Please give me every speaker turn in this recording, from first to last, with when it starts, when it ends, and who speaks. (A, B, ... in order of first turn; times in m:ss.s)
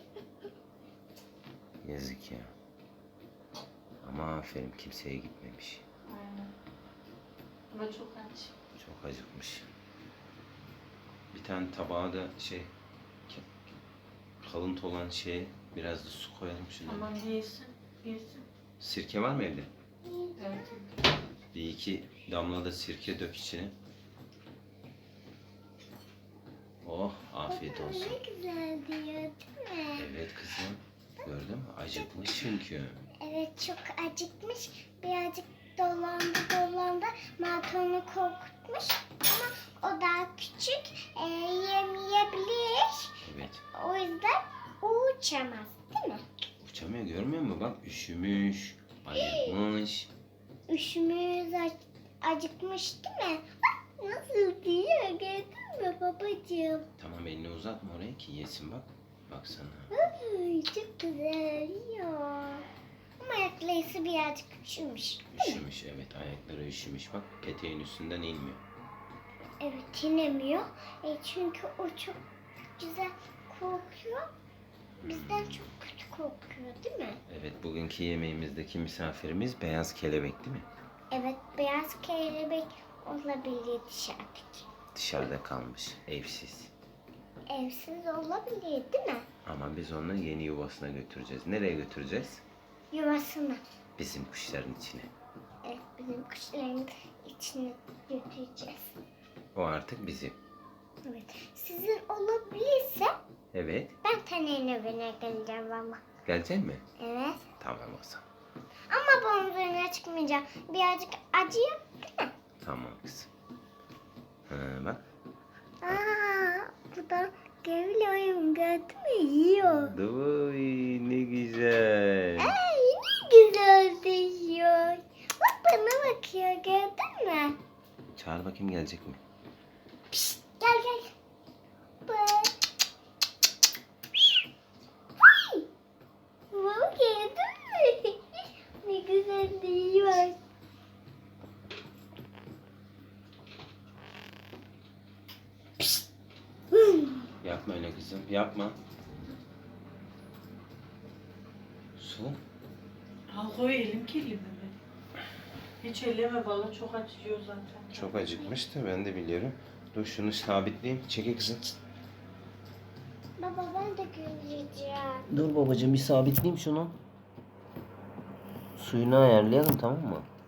0:01.8-0:02.5 A
0:04.0-0:05.8 A
0:06.1-0:06.5 B
0:07.7-0:08.5 B
0:08.8-0:09.7 A
0:11.3-0:12.7 A
0:14.4-0:17.1 A
0:16.8-0:18.5 B
0:18.8-0:19.7 A
0:20.0-0:20.8 C
0:20.4-0:21.1 B
0:21.5-0:23.7 A
0:26.8-0:28.2 A
0:27.5-0:30.1 C
0:30.0-0:33.0 A
0:31.9-0:32.5 C
0:33.2-0:46.3 C
0:43.2-0:43.6 A
0:46.6-0:50.1 A
0:49.1-0:49.6 C
0:50.7-0:56.9 C
0:57.0-0:59.9 A
0:59.9-1:02.6 C
1:03.2-1:05.6 C
1:05.3-1:08.6 A
1:09.6-1:12.2 C
1:12.8-1:14.3 C
1:15.0-1:15.7 A
1:15.0-1:17.2 C
1:17.3-1:20.7 A
1:21.1-1:24.7 C
1:24.9-1:26.7 A
1:27.5-1:29.3 C
1:29.4-1:32.4 A
1:32.9-1:33.6 C
1:34.0-1:35.1 A
1:35.6-1:39.0 C
1:39.6-1:40.4 A
1:41.1-1:43.2 C
1:43.5-1:44.0 A
1:44.0-1:46.0 C
1:46.2-1:46.8 A
1:47.0-1:47.5 C
1:47.6-1:48.2 A
1:48.9-1:52.3 C
1:52.6-1:53.3 A
1:54.5-1:55.0 A
1:55.8-2:00.0 C
1:59.6-2:02.6 A
2:02.4-2:07.6 C
2:08.2-2:09.2 A
2:10.1-2:11.1 C
2:12.0-2:12.6 C
2:15.2-2:15.7 C
2:16.5-2:20.4 C
2:26.7-2:27.3 C
2:27.4-2:28.8 A
2:32.0-2:32.4 A
2:33.3-2:34.8 B
2:35.8-2:38.4 B
2:37.9-2:41.8 A
2:43.4-2:45.3 C
2:45.3-2:47.0 A
2:48.8-2:50.3 A